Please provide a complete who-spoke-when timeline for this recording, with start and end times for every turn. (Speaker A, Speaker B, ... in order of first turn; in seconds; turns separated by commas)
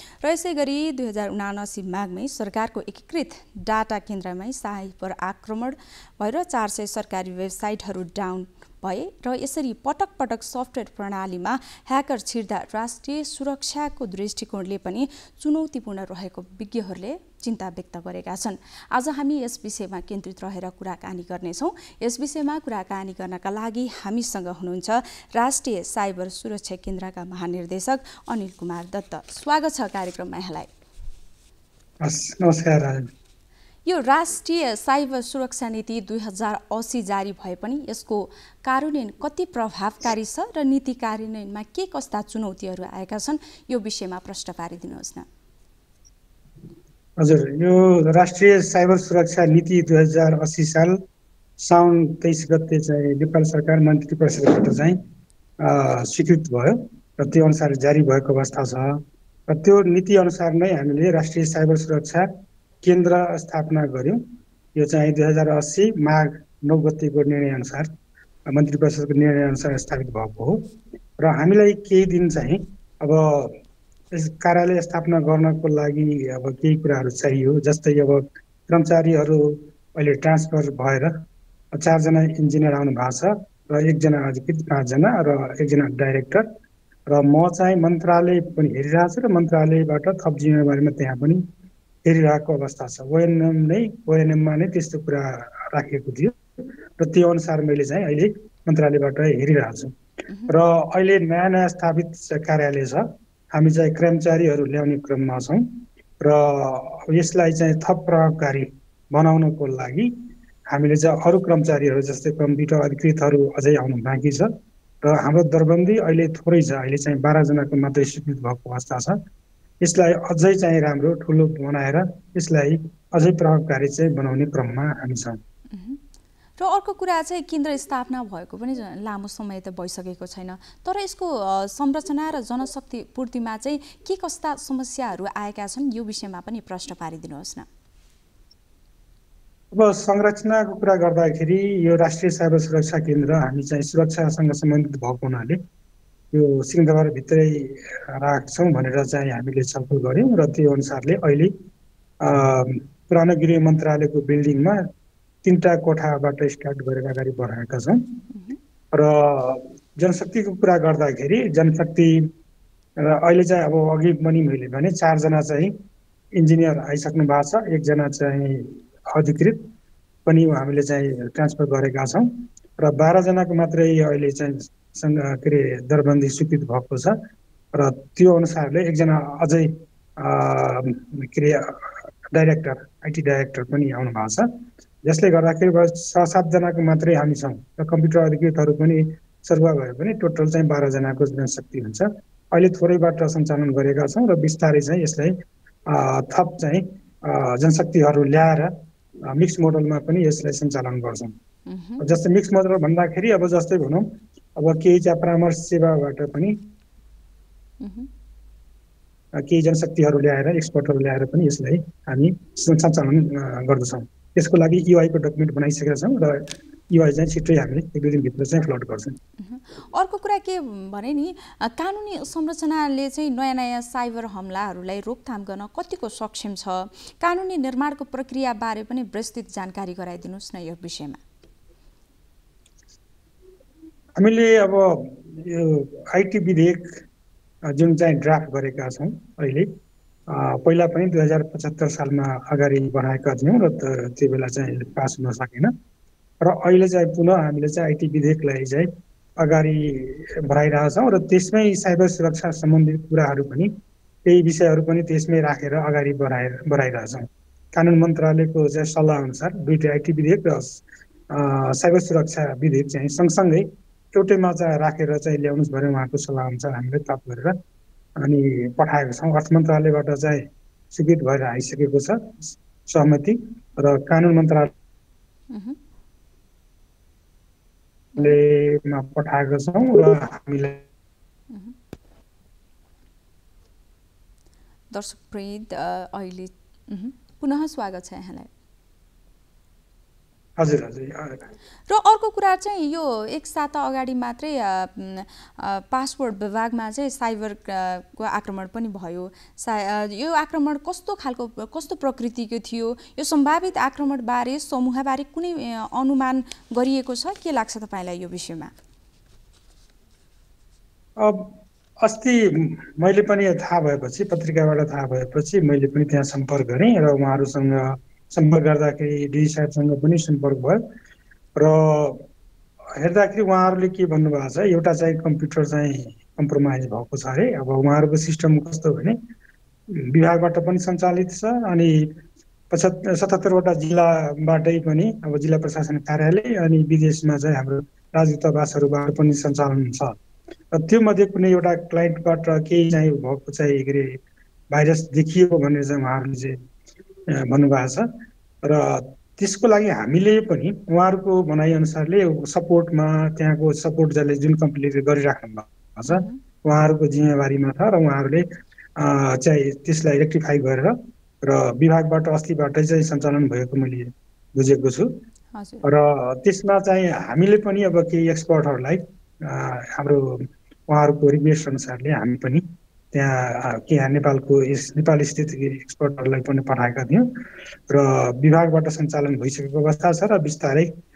Speaker A: 0.2-30.7, Speaker B: 32.0-33.1, Speaker A: 33.9-45.2, Speaker B: 47.2-51.0, Speaker B: 51.6-55.0, Speaker B: 55.6-62.3, Speaker B: 62.8-64.2, Speaker B: 64.8-67.9, Speaker B: 68.5-73.6, Speaker B: 74.1-86.5, Speaker B: 87.1-91.5, Speaker B: 92.0-96.4, Speaker B: 97.0-99.9, Speaker A: 100.3-100.6, Speaker B: 100.5-110.1, Speaker B: 110.7-119.2, Speaker B: 119.8-125.4, Speaker A: 125.7-126.0, Speaker A: 126.6-137.7, Speaker B: 139.7-145.6, Speaker B: 146.3-151.5, Speaker B: 152.2-154.8, Speaker B: 155.4-158.2, Speaker A: 158.3-158.6, Speaker B: 158.9-162.3, Speaker B: 163.0-165.8, Speaker B: 166.3-169.7, Speaker B: 170.3-177.2, Speaker B: 177.7-184.5, Speaker B: 185.0-195.4, Speaker B: 195.9-198.7, Speaker B: 199.3-201.4, Speaker A: 201.7-202.0, Speaker B: 202.0-206.6, Speaker A: 207.8-208.1, Speaker B: 209.4-219.2, Speaker A: 219.4-231.2, Speaker B: 234.2-237.0, Speaker B: 237.7-239.7, Speaker B: 240.3-245.7, Speaker B: 246.4-253.7, Speaker B: 254.2-267.6, Speaker B: 268.2-274.7, Speaker A: 275.5-275.8, Speaker B: 278.2-280.9, Speaker A: 281.5-281.8, Speaker A: 284.9-288.5, Speaker B: 290.6-291.4, Speaker A: 291.9-308.7, Speaker B: 311.2-320.8, Speaker B: 321.6-322.3, Speaker B: 323.0-329.2, Speaker B: 329.9-332.2, Speaker B: 332.7-340.2, Speaker B: 340.7-344.2, Speaker B: 344.7-346.6, Speaker B: 347.3-348.1, Speaker B: 348.6-358.5, Speaker A: 356.1-356.4, Speaker B: 359.0-365.1, Speaker A: 365.6-365.9, Speaker B: 365.8-377.3, Speaker B: 377.9-380.9